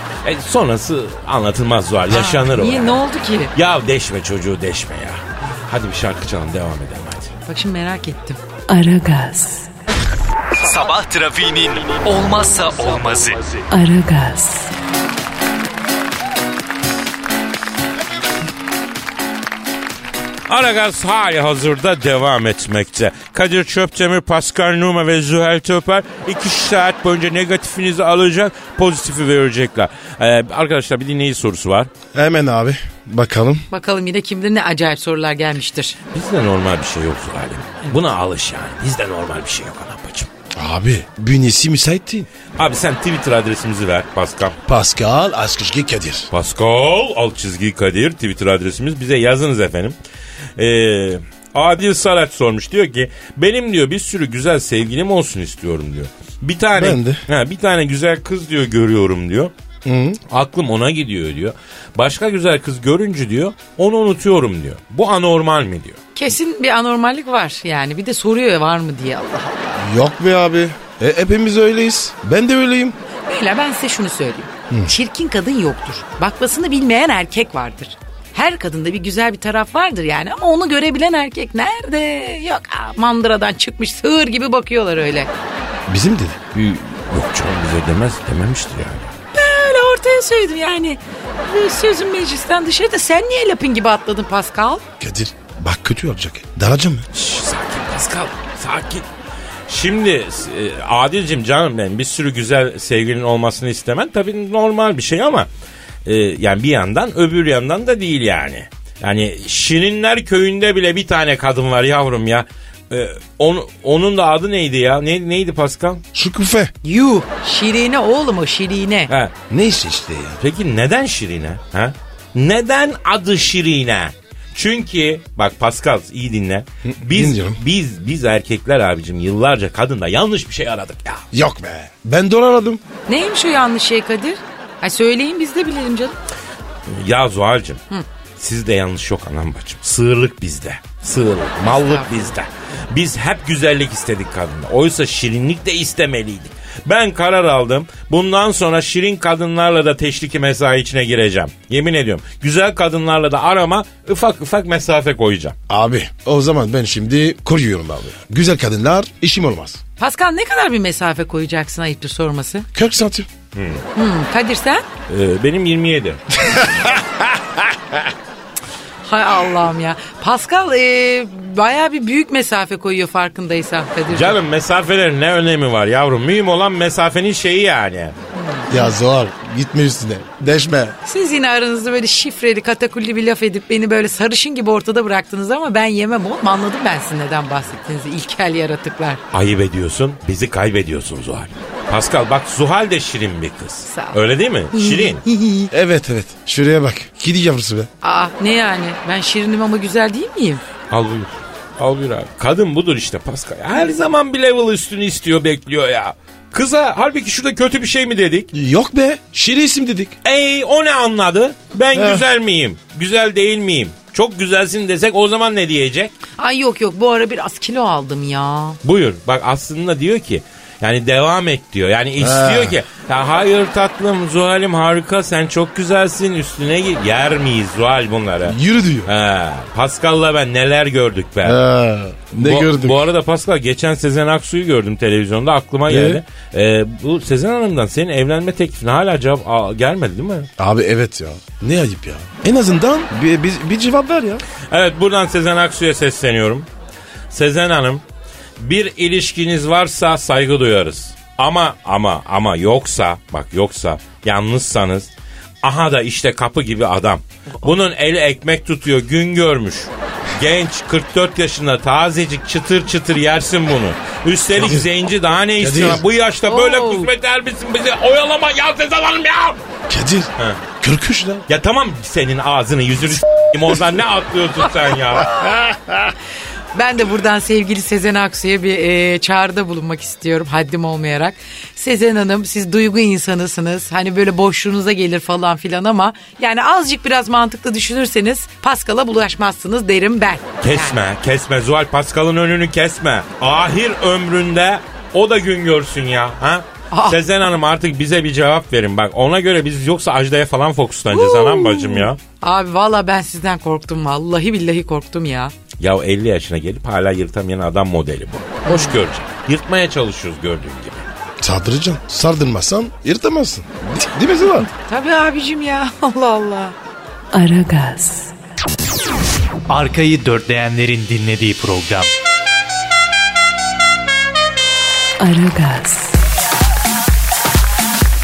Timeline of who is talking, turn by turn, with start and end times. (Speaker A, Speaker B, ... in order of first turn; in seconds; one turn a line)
Speaker A: 0.2-3.0
Speaker B: 2.1-3.5
Speaker A: 3.5-7.3
Speaker B: 7.5-8.4
Speaker C: 8.7-9.7
Speaker D: 10.5-13.7
Speaker C: 13.7-14.7
Speaker A: 20.5-31.9
Speaker E: 32.1-33.6
Speaker B: 33.7-36.0
Speaker A: 36.1-40.3
Speaker E: 40.5-42.3
Speaker A: 42.6-44.6
Speaker E: 44.6-46.3
Speaker A: 46.3-49.9
Speaker A: 50.6-59.5
Speaker E: 56.7-57.2
Speaker E: 59.8-60.2
Speaker A: 60.3-66.0
Speaker B: 66.1-69.9
Speaker E: 69.8-73.0
Speaker B: 73.3-85.3
Speaker E: 85.9-86.4
Speaker A: 86.5-89.1
Speaker B: 89.3-94.8
Speaker E: 95.0-97.1
Speaker A: 97.1-99.0
Speaker A: 99.7-105.5
Speaker A: 106.0-116.0
Speaker E: 116.1-116.7
Speaker B: 116.8-119.1
Speaker A: 119.1-119.3
Speaker E: 119.5-120.4
Speaker A: 120.4-131.2
Speaker E: 126.8-127.6
Speaker E: 131.3-132.8
Speaker B: 133.1-136.2
Speaker A: 136.9-137.8
Speaker A: 138.4-155.6
Speaker B: 141.6-142.3
Speaker E: 155.7-159.8
Speaker B: 160.0-162.7
Speaker E: 162.7-163.3
Speaker A: 163.5-163.8
Speaker B: 163.9-164.8
Speaker A: 165.1-166.4
Speaker B: 169.0-174.4
Speaker A: 174.1-178.1
Speaker B: 178.3-178.9
Speaker E: 178.7-180.9
Speaker B: 181.0-189.2
Speaker A: 189.3-195.2
Speaker B: 193.9-194.2
Speaker B: 194.7-195.7
Speaker E: 195.7-197.9
Speaker B: 198.0-200.6
Speaker A: 200.9-208.5
Speaker E: 208.5-210.1
Speaker A: 210.2-216.1
Speaker E: 211.9-212.2
Speaker B: 216.4-218.8
Speaker A: 218.8-231.6
Speaker E: 222.2-222.8
Speaker E: 228.4-229.1
Speaker E: 231.4-233.1
Speaker A: 232.4-240.5
Speaker E: 235.9-236.2
Speaker E: 240.6-244.4
Speaker A: 244.7-246.7
Speaker A: 247.3-248.0
Speaker A: 248.6-255.1
Speaker A: 255.6-269.6
Speaker E: 264.6-264.9
Speaker E: 265.6-266.0
Speaker B: 266.5-267.1
Speaker E: 269.9-271.4
Speaker A: 271.5-275.5
Speaker B: 276.7-291.0
Speaker A: 290.6-302.2
Speaker B: 296.9-297.2
Speaker B: 301.1-305.5
Speaker A: 305.8-311.1
Speaker B: 308.6-309.0
Speaker E: 311.4-314.7
Speaker B: 314.6-316.7
Speaker C: 317.3-318.3
Speaker D: 319.7-322.1
Speaker C: 325.2-326.2